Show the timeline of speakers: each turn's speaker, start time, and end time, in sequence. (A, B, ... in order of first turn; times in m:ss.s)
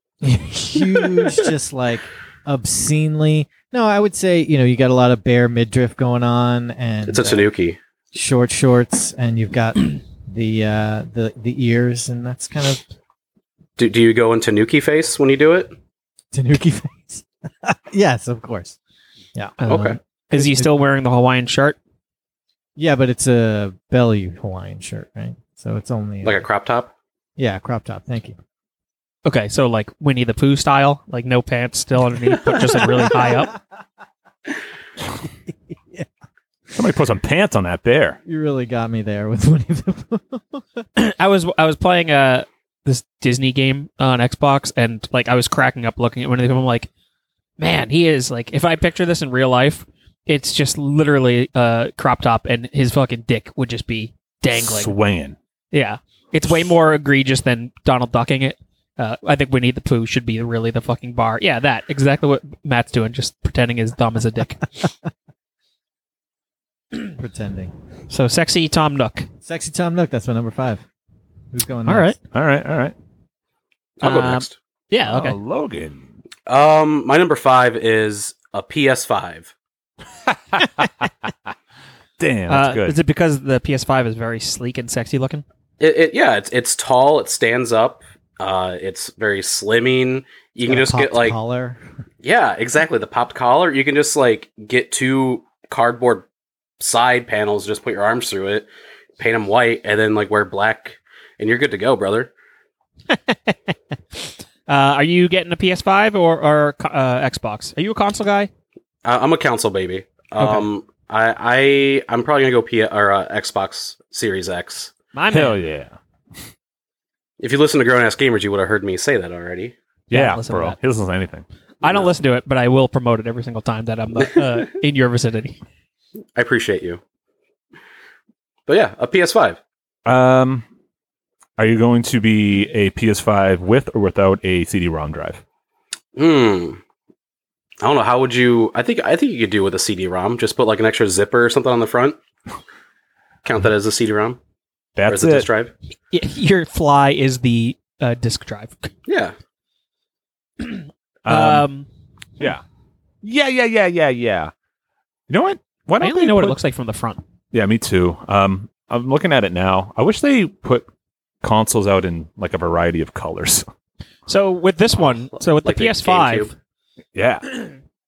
0:00.2-0:07.5 A
0:07.0-0:07.8 B
0:08.1-0:12.8 A
0:13.8-0:15.7 B
0:16.3-0:18.8 A
0:19.3-0:20.7 A
0:19.6-0:21.8 C
0:19.7-0:20.0 B
0:22.8-0:26.4 A
0:26.2-0:26.9 B
0:27.4-0:28.4 A
0:29.2-0:33.5 C
0:32.5-0:33.6 A
0:36.7-0:38.2 D
0:38.2-0:40.6 A
0:41.0-0:46.9 C
0:47.6-0:54.9 C
0:54.5-0:55.4 D
0:55.7-1:04.6 C
1:07.2-1:07.7 A
1:08.1-1:09.3 C
1:09.4-1:10.8 A
1:11.5-1:12.1 A
1:11.8-1:12.2 C
1:12.3-1:12.9 D
1:14.0-1:14.5 B
1:14.0-1:15.4 C
1:15.0-1:16.0 D
1:16.5-1:19.5 B
1:20.3-1:20.9 D
1:22.2-1:23.0 D
1:22.5-1:25.4 C
1:25.8-1:31.4 B
1:30.6-1:31.8 A
1:32.2-1:36.2 B
1:36.8-1:42.3 B
1:43.1-1:48.5 C
1:49.0-1:54.9 B
1:50.4-1:50.7 C
1:55.1-1:55.6 C
1:55.3-1:55.9 D
1:57.4-1:59.7 B
2:00.1-2:00.8 C
2:00.1-2:01.4 D
2:01.8-2:05.6 C
2:06.3-2:07.0 B
2:08.7-2:09.6 B
2:10.0-2:10.6 D
2:11.6-2:15.4 D
2:16.2-2:16.8 B
2:17.8-2:22.2 B
2:23.4-2:24.4 B
2:25.0-2:25.5 D
2:25.1-2:25.7 B
2:26.1-2:28.9 C
2:29.0-2:29.3 B
2:30.6-2:31.9 C
2:31.2-2:31.6 D
2:33.2-2:34.5 D
2:35.3-2:36.6 D
2:36.0-2:37.2 C
2:37.5-2:40.9 D
2:41.4-2:43.6 D
2:44.3-2:46.5 C
2:45.5-2:46.5 B
2:47.1-2:47.4 D